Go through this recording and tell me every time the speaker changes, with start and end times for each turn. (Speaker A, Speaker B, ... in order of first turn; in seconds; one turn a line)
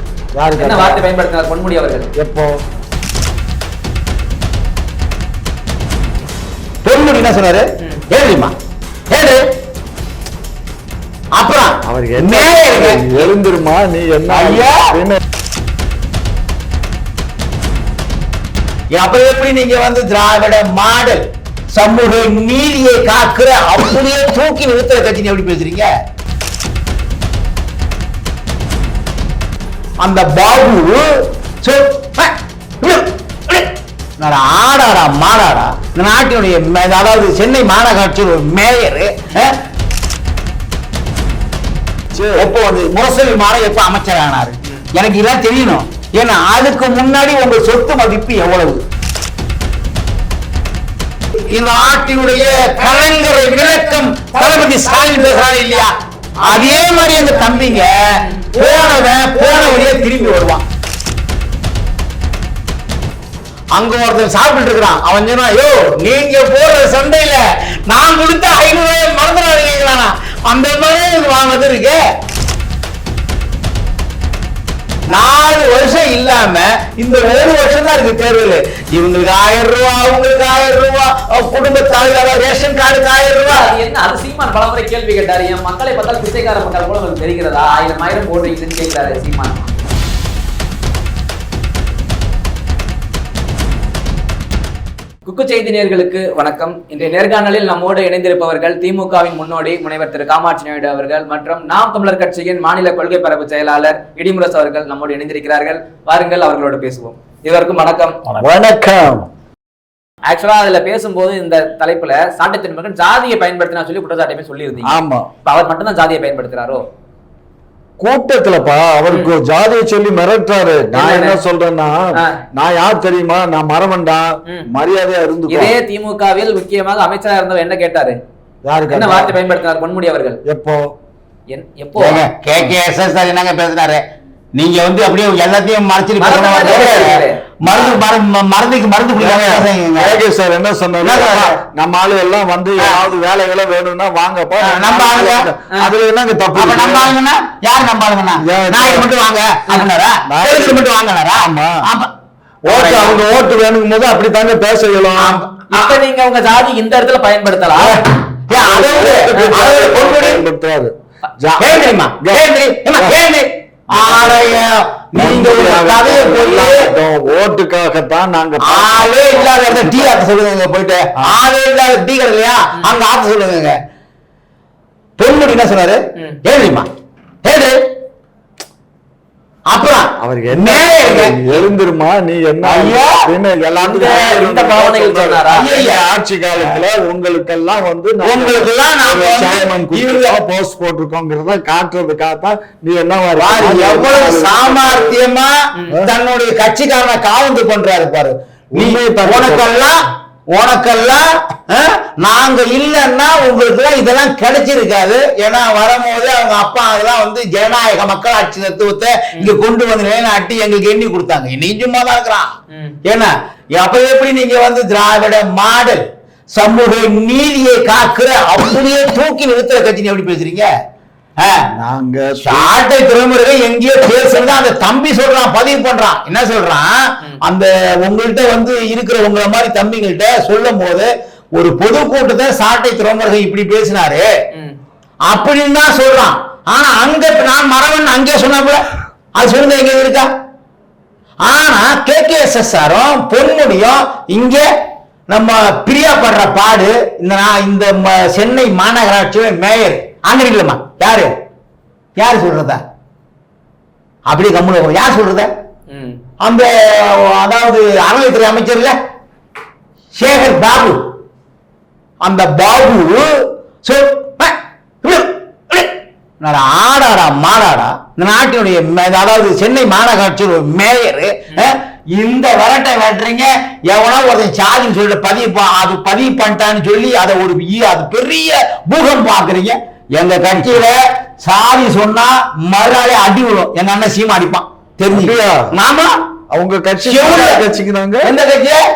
Speaker A: 0.3-1.0
Speaker B: 0.6-2.1
Speaker A: 2.2-2.6
Speaker C: 6.8-8.5
Speaker C: 9.1-9.5
Speaker C: 11.3-13.3
Speaker A: 11.8-15.2
Speaker C: 14.3-14.9
Speaker C: 18.9-25.9
Speaker C: 30.0-39.6
Speaker A: 42.1-42.4
Speaker C: 42.4-48.8
Speaker C: 51.3-60.6
Speaker B: 56.5-57.2
Speaker B: 58.1-59.1
Speaker C: 63.7-72.0
Speaker C: 75.1-83.7
Speaker B: 83.5-89.5
Speaker B: 95.2-108.2
Speaker A: 108.4-109.3
Speaker B: 110.3-114.9
Speaker A: 114.8-115.3
Speaker B: 115.4-116.8
Speaker A: 118.0-125.7
Speaker B: 120.9-121.4
Speaker B: 125.5-128.2
Speaker A: 128.6-129.3
Speaker B: 128.9-130.4
Speaker A: 130.4-130.9
Speaker B: 131.5-132.2
Speaker C: 131.9-134.0
Speaker C: 134.5-140.2
Speaker B: 136.2-137.4
Speaker A: 136.6-137.1
Speaker A: 139.2-147.1
Speaker C: 141.0-141.5
Speaker C: 144.6-145.5
Speaker C: 146.6-152.1
Speaker A: 148.4-149.1
Speaker A: 150.2-151.8
Speaker A: 152.7-155.4
Speaker C: 152.7-153.2
Speaker C: 155.2-155.9
Speaker B: 155.7-157.9
Speaker C: 158.5-160.4
Speaker A: 158.5-163.2
Speaker C: 161.6-166.9
Speaker A: 163.9-164.6
Speaker A: 165.2-170.1
Speaker C: 168.7-173.8
Speaker C: 175.2-176.9
Speaker C: 177.4-177.8
Speaker C: 179.7-181.5
Speaker A: 180.2-195.2
Speaker C: 182.6-183.2
Speaker B: 183.8-185.6
Speaker C: 185.5-186.0
Speaker C: 188.2-190.4
Speaker C: 193.4-212.5
Speaker A: 198.7-199.7
Speaker B: 212.7-213.0
Speaker C: 213.0-216.0
Speaker C: 216.5-220.7
Speaker C: 221.4-221.7
Speaker A: 221.7-222.7
Speaker C: 222.4-234.2
Speaker B: 234.5-234.8
Speaker C: 235.3-240.3
Speaker C: 241.4-244.6
Speaker C: 245.3-251.3
Speaker C: 252.2-252.8
Speaker C: 254.3-255.5
Speaker B: 255.9-256.2
Speaker C: 256.4-258.9
Speaker C: 260.1-261.1
Speaker C: 262.2-286.2
Speaker A: 285.1-285.7
Speaker A: 286.5-288.3
Speaker C: 287.1-287.6
Speaker C: 288.2-288.8